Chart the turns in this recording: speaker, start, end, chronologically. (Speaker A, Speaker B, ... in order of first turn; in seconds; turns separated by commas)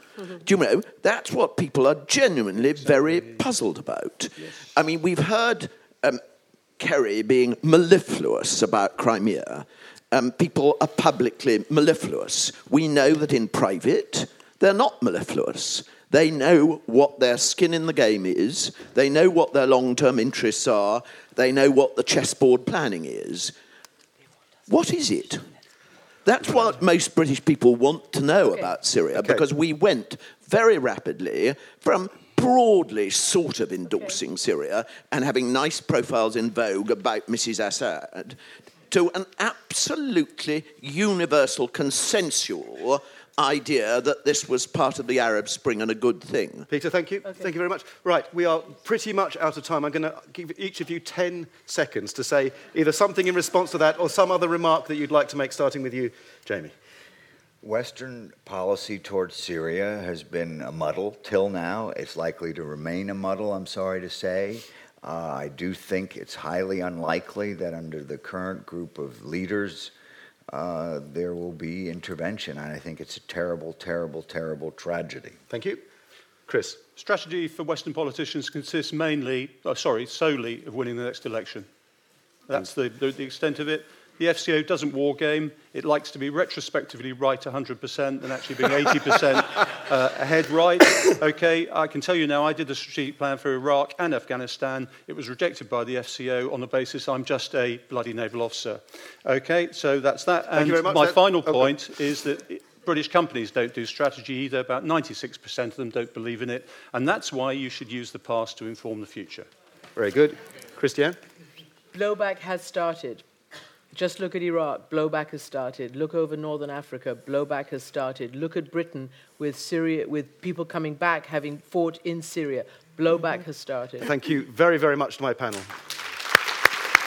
Speaker A: 0.3-6.2, Speaker A: 6.8-23.5, Speaker A: 24.7-25.5, Speaker A: 26.2-38.4, Speaker B: 29.1-29.4, Speaker C: 33.9-34.1, Speaker A: 38.9-46.7, Speaker B: 46.7-56.7, Speaker D: 57.6-69.9, Speaker D: 70.5-75.4, Speaker B: 75.5-75.8, Speaker B: 76.5-76.8, Speaker E: 77.0-81.7, Speaker E: 82.5-109.5, Speaker B: 100.5-101.7, Speaker B: 110.0-111.2, Speaker C: 111.9-113.2, Speaker C: 113.9-124.1, Speaker B: 124.0-125.8